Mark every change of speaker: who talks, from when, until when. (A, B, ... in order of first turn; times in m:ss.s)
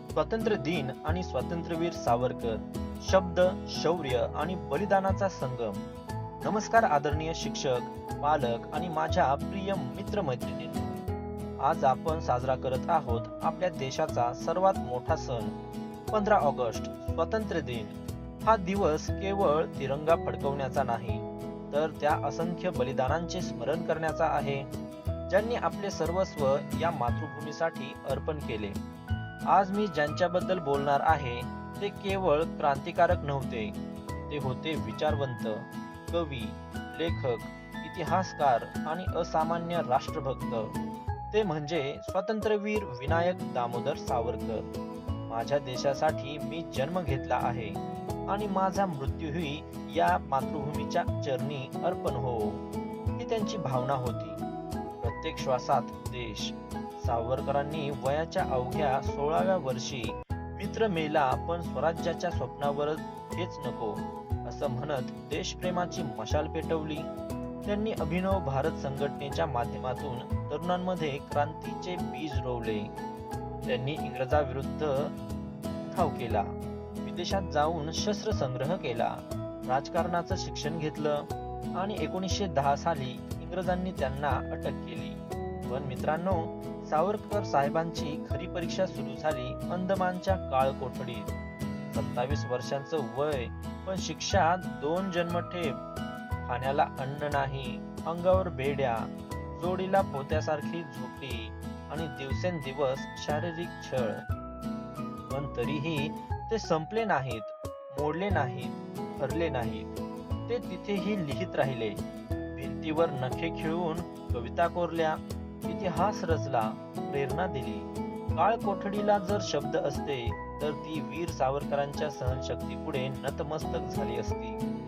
0:00.1-0:05.8 A
0:06.4-0:11.0 A
0:11.6-0:15.6 A
0:16.1-0:24.7 A
0:25.3-0:28.8 A
0:29.5-0:33.8 A
0:34.3-0:40.8 A
0:41.3-0:44.7 A
0:45.3-0:52.6 A
0:53.2-0:54.4 A
0:55.0-1:07.1 A
1:07.7-1:12.9 A
1:13.7-1:15.2 A
1:15.9-1:31.3 A
1:31.9-1:35.8 A
1:36.4-1:44.3 A
1:45.3-1:49.9 A
1:50.5-2:04.6 A